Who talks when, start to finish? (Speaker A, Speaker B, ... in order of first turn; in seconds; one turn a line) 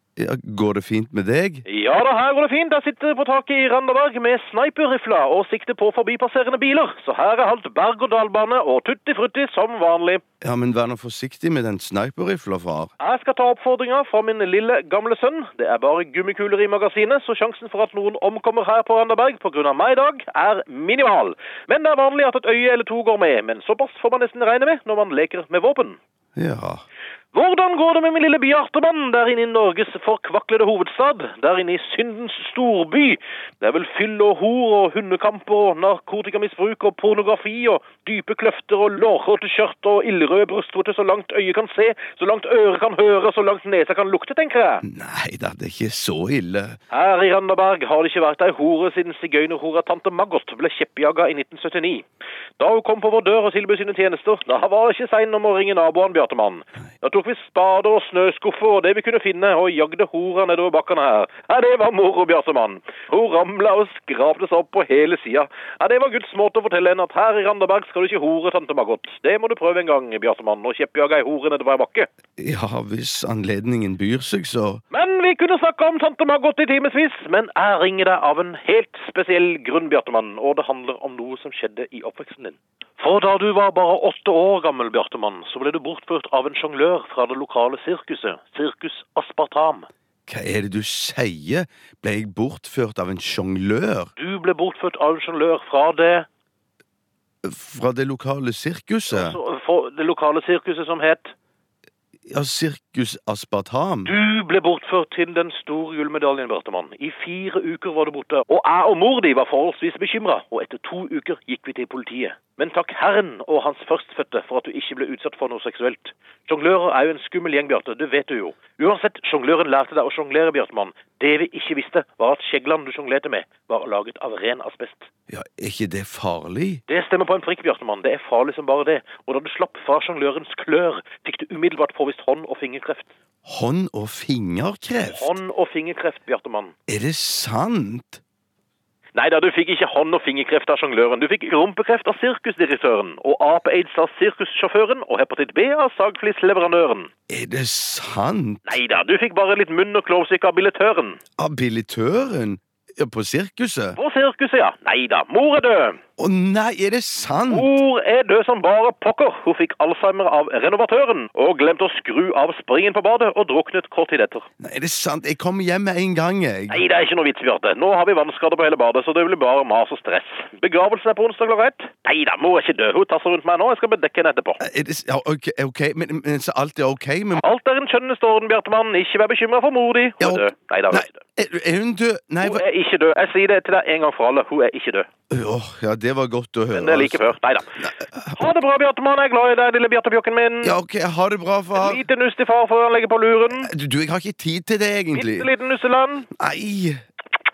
Speaker A: 0.2-1.6
Speaker B: 1.6-10.2
Speaker A: 10.4-12.9
Speaker B: 13.0-26.0
Speaker A: 26.4-26.8
Speaker B: 27.3-44.8
Speaker A: 44.8-46.8
Speaker B: 46.9-52.0
Speaker B: 52.6-72.1
Speaker A: 72.4-74.8
Speaker B: 74.9-89.9
Speaker A: 90.3-94.1
Speaker B: 94.2-96.2
Speaker A: 97.4-99.4
Speaker B: 99.1-101.3
Speaker A: 102.3-104.1
Speaker B: 104.0-125.1
Speaker A: 125.3-126.8
Speaker B: 126.9-133.1
Speaker A: 133.4-135.4
Speaker B: 135.1-136.7
Speaker A: 136.9-138.2
Speaker B: 139.1-147.1
Speaker A: 147.3-148.8
Speaker B: 148.6-151.2
Speaker A: 151.4-154.0
Speaker B: 153.9-156.0
Speaker A: 156.2-157.7
Speaker B: 157.5-164.5
Speaker A: 164.6-166.8
Speaker B: 166.7-174.6
Speaker A: 174.6-177.4
Speaker B: 177.4-181.2
Speaker A: 180.2-182.6
Speaker B: 182.4-185.1
Speaker A: 185.3-188.5
Speaker B: 186.7-187.8
Speaker B: 188.3-190.8
Speaker A: 190.6-192.0
Speaker B: 191.7-193.7
Speaker A: 193.5-195.5
Speaker B: 195.1-196.3
Speaker A: 196.3-197.0